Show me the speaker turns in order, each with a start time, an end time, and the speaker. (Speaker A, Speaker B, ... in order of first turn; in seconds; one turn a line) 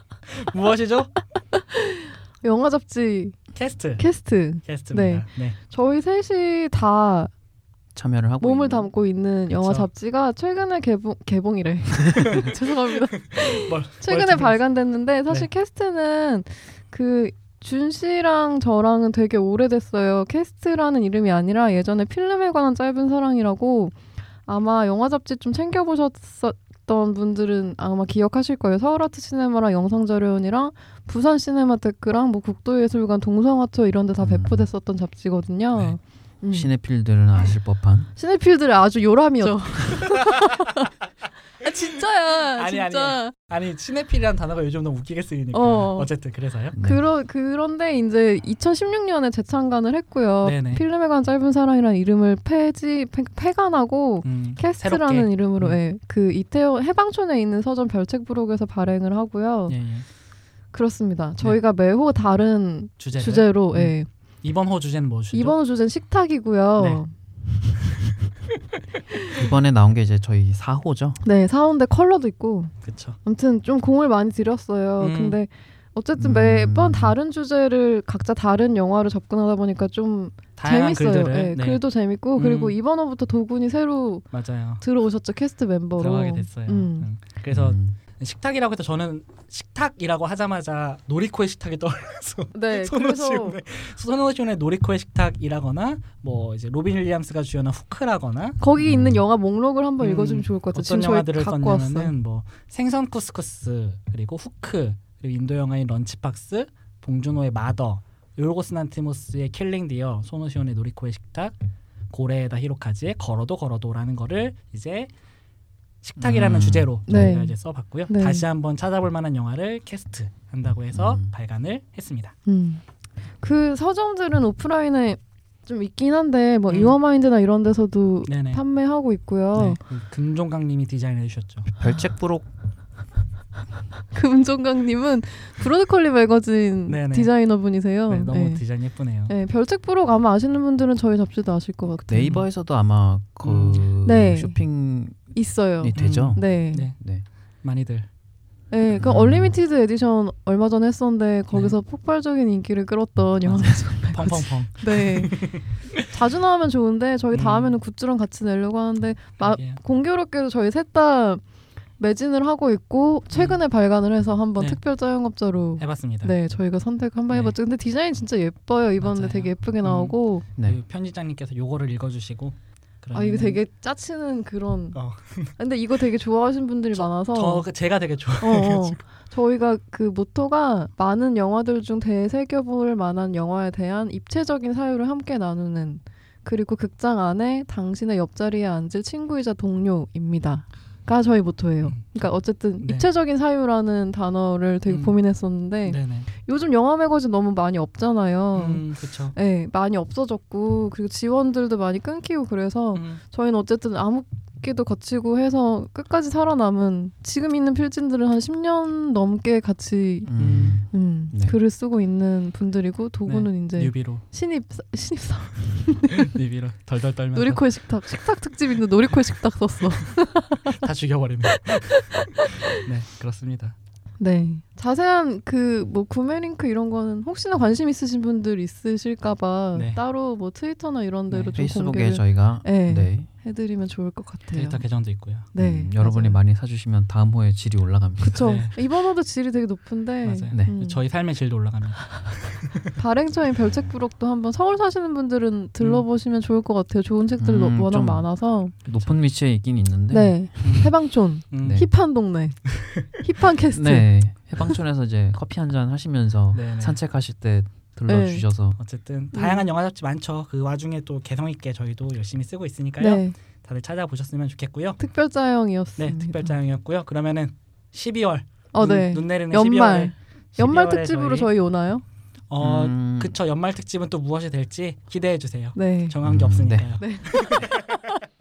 Speaker A: 0.3-1.1
Speaker B: 1.5-3.4
Speaker A: 3.5-4.0
Speaker B: 4.0-7.3
Speaker A: 4.6-5.5
Speaker C: 7.9-8.9
Speaker B: 8.4-36.7
Speaker A: 9.5-9.9
Speaker A: 12.2-12.5
Speaker A: 13.3-14.6
Speaker C: 34.2-34.6
Speaker A: 35.7-36.0
Speaker C: 36.5-38.1
Speaker B: 38.1-40.9
Speaker B: 41.6-43.3
Speaker A: 42.5-46.8
Speaker B: 45.5-46.1
Speaker C: 46.7-47.0
Speaker B: 46.8-59.8
Speaker A: 50.4-50.8
Speaker A: 54.2-55.8
Speaker A: 59.7-60.0
Speaker B: 60.7-64.1
Speaker A: 63.0-65.5
Speaker B: 65.3-67.1
Speaker A: 66.8-67.0
Speaker C: 69.3-71.2
Speaker B: 71.2-72.7
Speaker A: 72.8-73.2
Speaker B: 73.2-84.2
Speaker A: 75.0-75.4
Speaker C: 76.2-77.1
Speaker A: 80.6-81.8
Speaker A: 82.3-82.8
Speaker A: 84.3-84.8
Speaker B: 84.8-87.1
Speaker A: 86.0-98.6
Speaker C: 87.5-87.9
Speaker B: 92.5-93.6
Speaker B: 98.6-102.1
Speaker C: 98.8-99.2
Speaker A: 100.0-111.5
Speaker A: 112.1-115.1
Speaker A: 116.0-122.3
Speaker C: 116.2-116.9
Speaker B: 117.1-118.4
Speaker C: 120.9-121.3
Speaker B: 122.5-122.8
Speaker B: 123.4-129.8
Speaker A: 126.7-127.0
Speaker A: 128.2-128.6
Speaker A: 129.5-131.7
Speaker C: 131.8-132.5
Speaker B: 134.1-138.6
Speaker A: 136.9-137.3
Speaker A: 138.1-139.3
Speaker B: 139.3-142.4
Speaker C: 142.1-147.2
Speaker A: 143.4-143.9
Speaker B: 144.0-144.6
Speaker B: 145.1-146.9
Speaker A: 145.9-147.0
Speaker A: 147.6-148.1
Speaker B: 148.7-161.4
Speaker C: 148.9-149.5
Speaker A: 153.4-156.0
Speaker A: 157.3-157.8
Speaker A: 159.4-159.8
Speaker B: 162.0-170.4
Speaker A: 163.3-163.6
Speaker A: 165.8-166.3
Speaker A: 167.3-167.6
Speaker A: 169.0-173.6
Speaker B: 173.1-175.0
Speaker A: 174.9-175.5
Speaker B: 175.6-177.7
Speaker A: 176.9-179.0
Speaker B: 178.4-210.3
Speaker A: 191.8-192.3
Speaker A: 192.8-193.1
Speaker A: 194.9-195.1
Speaker A: 195.8-196.3
Speaker A: 198.5-199.3
Speaker A: 202.9-203.2
Speaker C: 210.2-211.6
Speaker A: 210.4-210.8
Speaker B: 210.9-216.3
Speaker A: 213.2-214.2
Speaker A: 216.1-217.6
Speaker B: 217.3-220.8
Speaker A: 220.7-223.7
Speaker B: 221.7-222.5
Speaker B: 224.2-234.8
Speaker A: 229.7-230.0
Speaker A: 231.3-231.6
Speaker C: 231.5-233.3
Speaker A: 234.5-235.5
Speaker B: 235.5-236.4
Speaker C: 235.6-238.5
Speaker B: 238.2-241.0
Speaker A: 238.4-238.8
Speaker A: 240.2-242.8
Speaker B: 242.9-248.7
Speaker C: 243.6-243.9
Speaker A: 245.8-246.1
Speaker C: 247.4-250.8
Speaker B: 250.1-254.8
Speaker A: 250.6-250.9
Speaker A: 251.5-251.9
Speaker C: 251.6-251.9
Speaker A: 252.8-253.0
Speaker C: 253.7-258.8
Speaker A: 256.5-257.0
Speaker B: 258.1-258.4
Speaker A: 258.8-265.0
Speaker B: 259.3-259.6
Speaker B: 263.0-263.3
Speaker B: 265.0-266.5
Speaker A: 266.0-271.5
Speaker B: 268.7-272.0
Speaker A: 272.5-277.7
Speaker C: 272.6-273.4
Speaker B: 275.7-276.1
Speaker C: 276.2-276.9
Speaker B: 277.0-278.2